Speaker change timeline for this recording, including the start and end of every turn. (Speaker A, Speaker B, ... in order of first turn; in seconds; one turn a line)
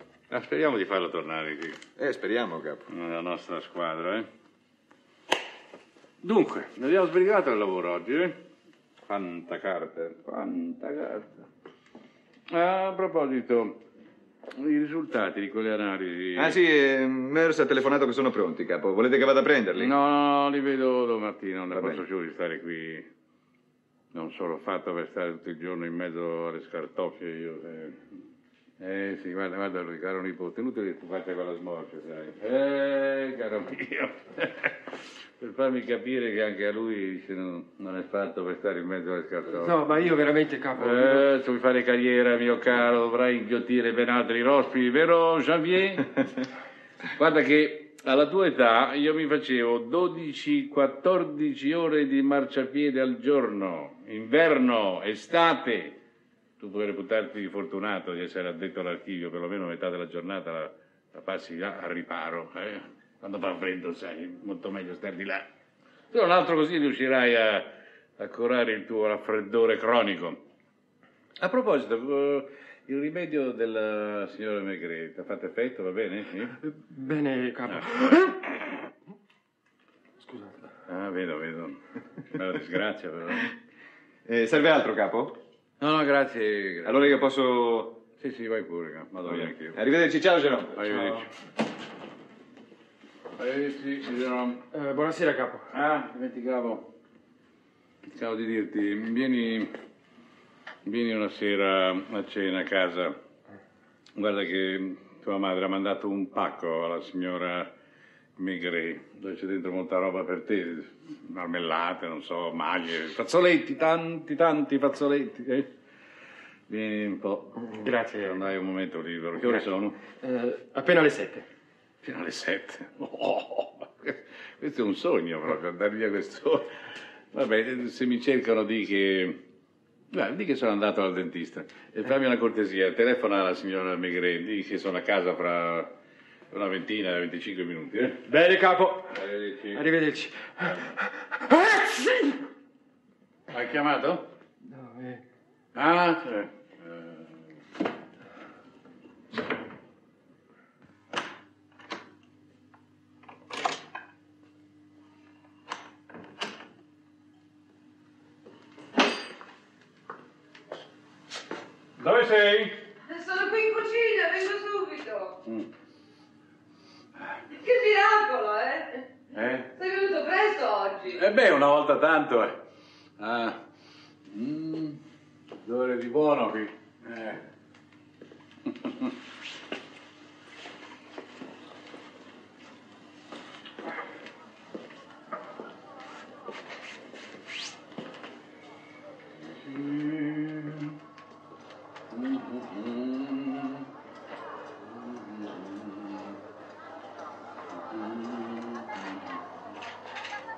Speaker A: 0.3-1.8
Speaker B: 2.0-2.8
Speaker A: 2.9-4.3
Speaker A: 6.2-8.4
Speaker A: 9.1-11.5
Speaker A: 12.5-13.8
Speaker A: 14.5-16.6
Speaker B: 16.4-19.9
Speaker A: 19.8-23.1
Speaker B: 21.7-22.0
Speaker A: 24.1-28.0
Speaker A: 28.8-34.7
Speaker A: 35.4-39.8
Speaker C: 39.5-41.2
Speaker A: 40.8-46.1
Speaker A: 47.2-56.0
Speaker A: 56.6-65.5
Speaker A: 66.1-70.4
Speaker A: 71.4-76.6
Speaker C: 76.7-78.3
Speaker A: 77.7-78.3
Speaker C: 80.2-80.6
Speaker A: 80.9-81.8
Speaker A: 82.3-83.5
Speaker B: 84.3-85.4
Speaker A: 85.8-87.0
Speaker B: 86.8-88.0
Speaker A: 88.2-89.8
Speaker B: 89.2-91.2
Speaker A: 90.8-91.2
Speaker A: 93.4-94.6
Speaker C: 94.7-95.7
Speaker A: 95.7-96.9
Speaker A: 98.2-99.7
Speaker A: 100.8-103.2
Speaker A: 104.2-107.7
Speaker A: 108.4-115.7
Speaker A: 116.7-120.0
Speaker C: 117.8-118.3
Speaker C: 120.2-121.4
Speaker A: 122.0-126.8
Speaker A: 127.3-129.4
Speaker A: 130.1-135.9
Speaker A: 136.5-138.3
Speaker C: 138.3-139.1
Speaker A: 139.1-139.9
Speaker C: 139.7-140.8
Speaker A: 143.5-144.3
Speaker C: 144.6-145.2
Speaker A: 145.8-147.3
Speaker A: 162.0-162.8
Speaker D: 163.1-165.4
Speaker D: 167.5-169.1
Speaker A: 169.3-169.7
Speaker D: 169.8-171.2
Speaker A: 171.2-172.6
Speaker A: 173.2-173.6
Speaker A: 174.3-175.0
Speaker A: 175.6-177.4
Speaker A: 189.6-191.0
Speaker A: 192.1-193.9
Speaker A: 195.3-195.9
Speaker A: 198.5-198.8